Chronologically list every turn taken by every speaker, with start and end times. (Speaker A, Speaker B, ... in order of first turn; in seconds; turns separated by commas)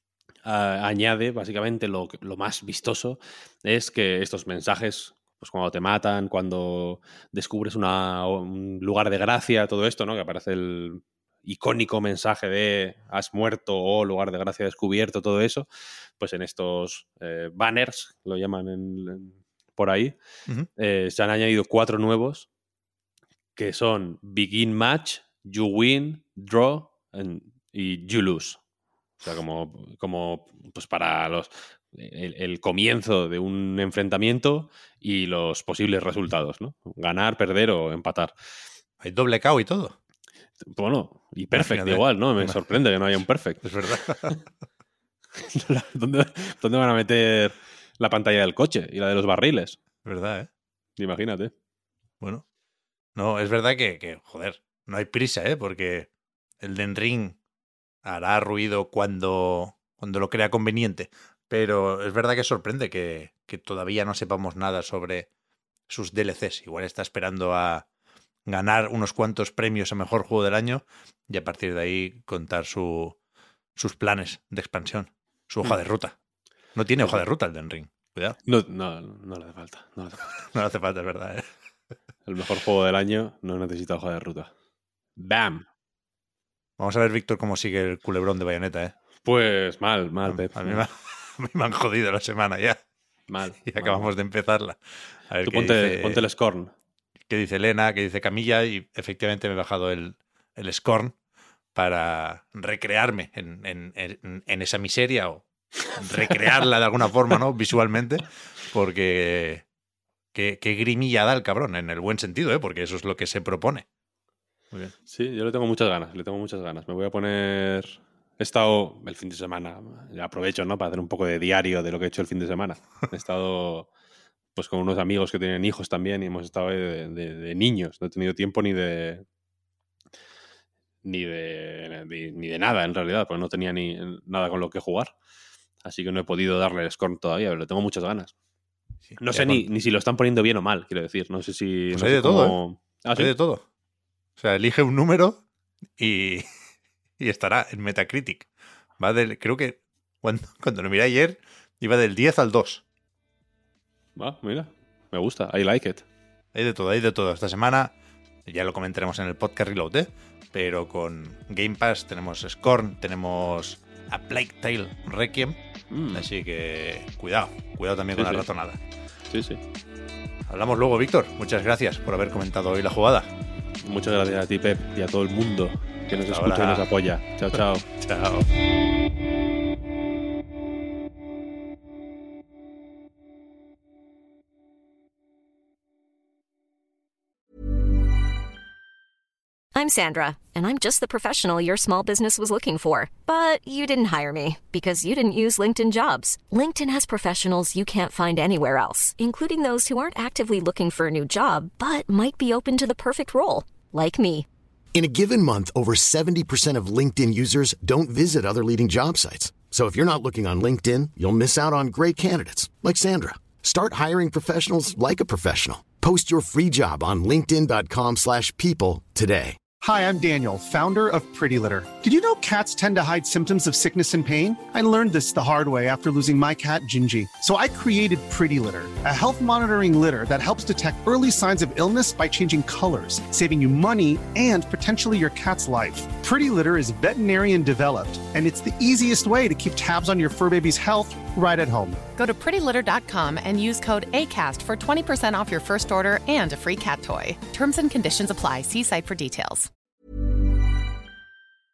Speaker A: 0.4-15.7, Speaker A: 16.2-20.1, Speaker A: 20.8-22.5, Speaker A: 23.6-28.6, Speaker A: 29.2-38.3, Speaker B: 39.0-39.9, Speaker A: 40.6-44.4, Speaker B: 41.5-42.6, Speaker B: 43.6-44.3, Speaker A: 45.4-49.8, Speaker B: 50.0-50.5, Speaker A: 51.0-51.5, Speaker B: 53.1-56.1, Speaker B: 56.6-57.4, Speaker B: 58.0-65.3, Speaker B: 65.9-67.8, Speaker B: 68.5-73.2, Speaker B: 73.8-76.1, Speaker B: 76.7-78.4, Speaker A: 78.4-80.4, Speaker B: 80.5-81.5, Speaker A: 82.2-84.5, Speaker A: 85.2-85.7, Speaker B: 86.8-88.9, Speaker A: 89.2-90.8, Speaker B: 90.3-92.8, Speaker A: 93.3-94.1, Speaker B: 93.6-94.8, Speaker B: 95.3-96.2, Speaker A: 95.4-96.7, Speaker B: 97.3-101.1, Speaker B: 101.7-109.6, Speaker A: 106.0-106.5, Speaker B: 110.3-113.8, Speaker A: 115.1-123.9, Speaker A: 124.5-129.2, Speaker A: 131.0-135.1, Speaker A: 135.8-138.3, Speaker B: 139.1-139.7, Speaker A: 139.2-143.3, Speaker B: 141.9-142.6, Speaker B: 143.1-143.6, Speaker B: 144.4-145.4, Speaker B: 146.0-146.5, Speaker B: 147.2-148.5, Speaker B: 149.0-152.8, Speaker A: 154.2-156.0, Speaker B: 156.5-157.9, Speaker B: 158.5-165.6, Speaker A: 165.9-166.2, Speaker B: 166.1-168.8, Speaker A: 168.2-168.4, Speaker A: 169.3-169.6, Speaker B: 170.5-173.3, Speaker A: 173.8-177.8, Speaker B: 176.2-176.9, Speaker B: 178.0-178.5, Speaker C: 189.7-204.4, Speaker D: 204.9-219.6, Speaker E: 219.8-242.0, Speaker F: 242.2-249.7